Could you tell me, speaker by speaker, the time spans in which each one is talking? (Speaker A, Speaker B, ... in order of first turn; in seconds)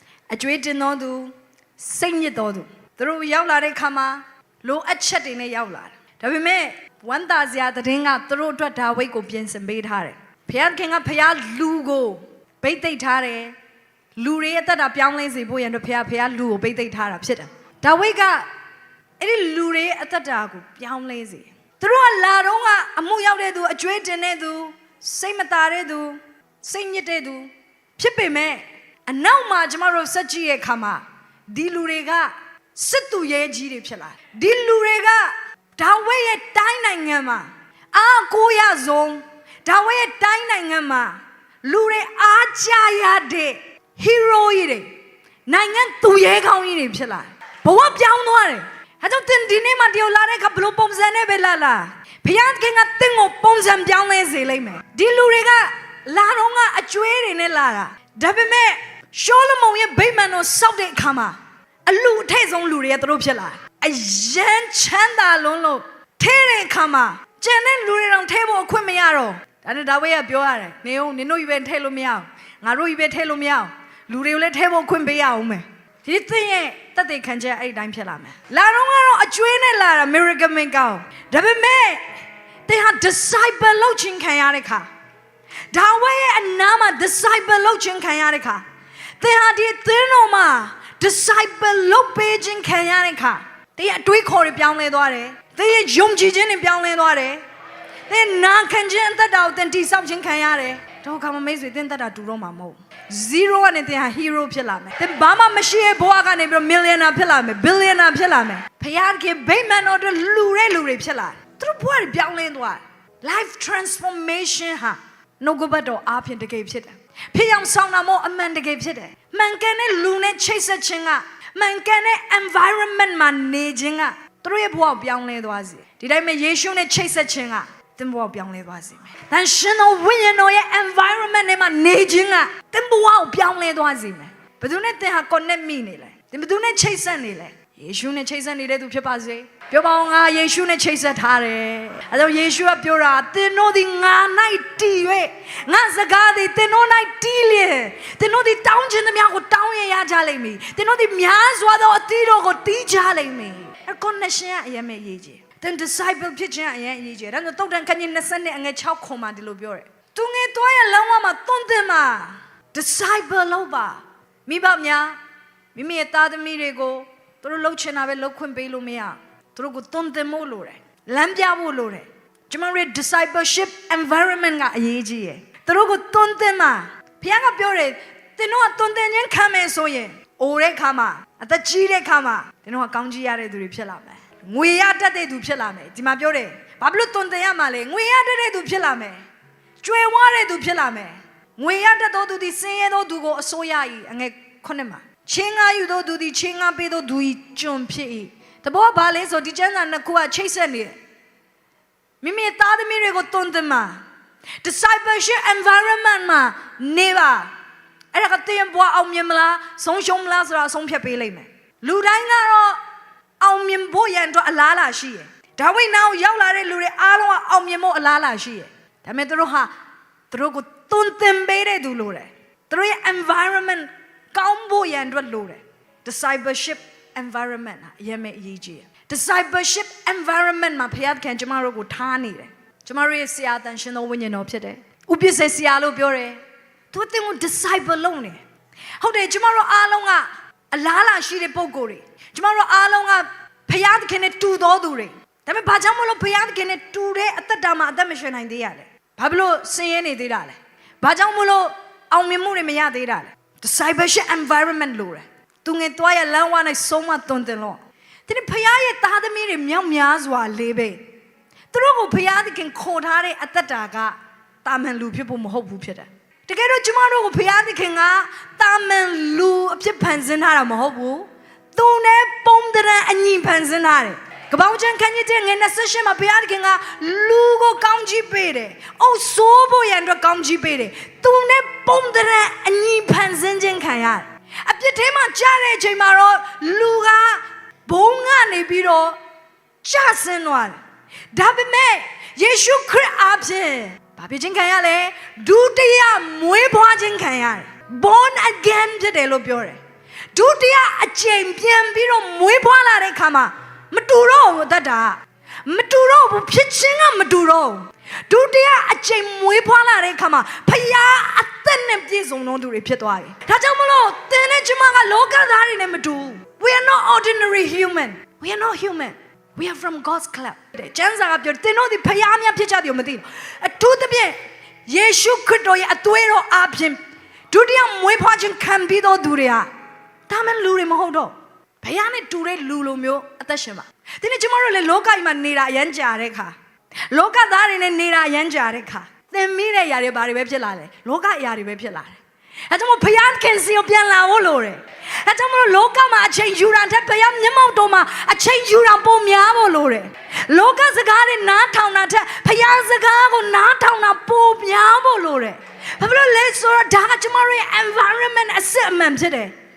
Speaker A: 0.3-13.6, 14.2-18.5, 19.2-44.9, 45.5-82.1, 82.7-84.9, 85.7-88.6, 89.2-97.4, 98.1-165.2, 165.8-189.2, 189.8-201.0, 202.2-204.0, 204.6-207.5, 208.1-212.8, 213.4-219.7, 220.3-236.4, 236.9-238.4, 239.0-261.0, 261.7-289.2, 289.8-290.8, 291.3-299.8, 300.3-327.0, 327.5-329.7, 330.3-336.5, 337.1-342.2, 342.7-359.5